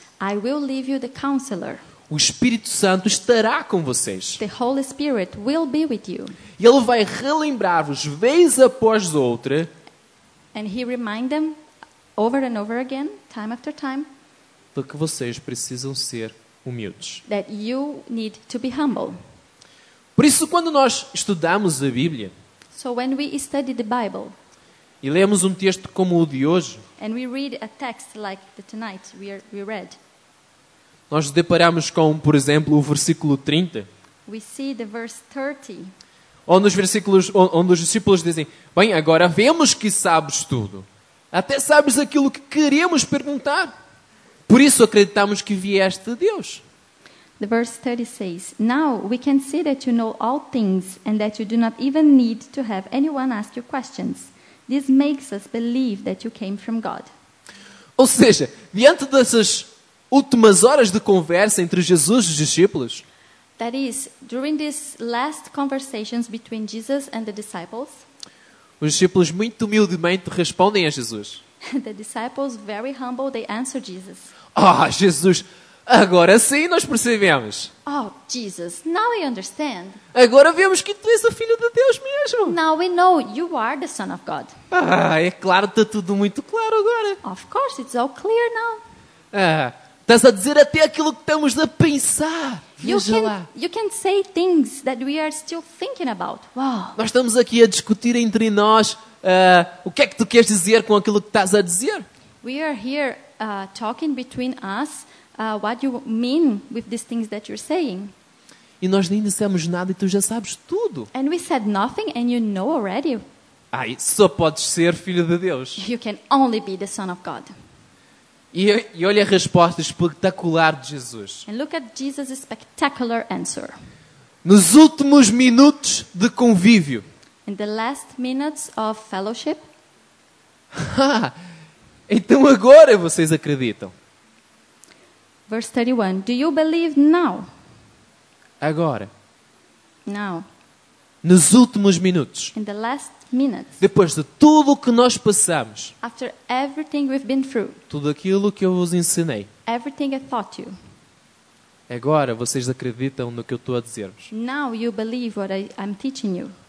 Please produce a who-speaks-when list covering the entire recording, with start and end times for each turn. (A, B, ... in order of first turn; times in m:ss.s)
0:00.2-0:01.8 A
0:02.1-0:04.4 B
0:04.4-0:06.4 A
0:06.6-0:09.7 B
0:10.5-0:11.6 A
0:12.2-0:14.1 A
0:14.8-0:17.2 B
0:17.3-0:19.2 A
0:20.2-0:22.3 B
0:22.7-0:24.4 A
0:25.0-0:26.8 B
0:27.0-0:30.0 A
0:31.1-0:33.9 B
0:34.3-0:35.9 A
0:36.5-0:43.7 B
0:44.5-0:46.6 B
0:47.4-0:57.1 A
0:58.0-1:03.0 B
1:03.6-1:08.0 A
1:08.8-1:11.4 B
1:11.6-1:14.3 A
1:14.6-1:17.7 B
1:17.9-1:20.0 A
1:20.1-1:22.6 B
1:22.5-1:24.6 A
1:24.7-1:27.2 B
1:27.2-1:28.8 A
1:29.3-1:33.5 B
1:32.8-1:37.0 A
1:37.0-1:42.1 B
1:42.4-1:48.1 A
1:48.8-1:51.1 B
1:51.1-1:53.2 A
1:53.7-1:55.8 B
1:55.8-1:57.5 A
1:58.5-2:01.5 B
2:01.5-2:03.8 A
2:04.4-2:07.0 B
2:07.5-2:09.6 A
2:10.7-2:11.4 B
2:12.1-2:13.9 B
2:15.5-2:17.5 A
2:18.6-2:19.1 B
2:20.1-2:20.5 A
2:21.2-2:22.5 B
2:22.6-2:23.8 A
2:23.8-2:25.9 B
2:26.0-2:27.8 A
2:27.9-2:29.5 B
2:29.7-2:30.8 A
2:31.9-2:34.3 B
2:34.3-2:36.5 A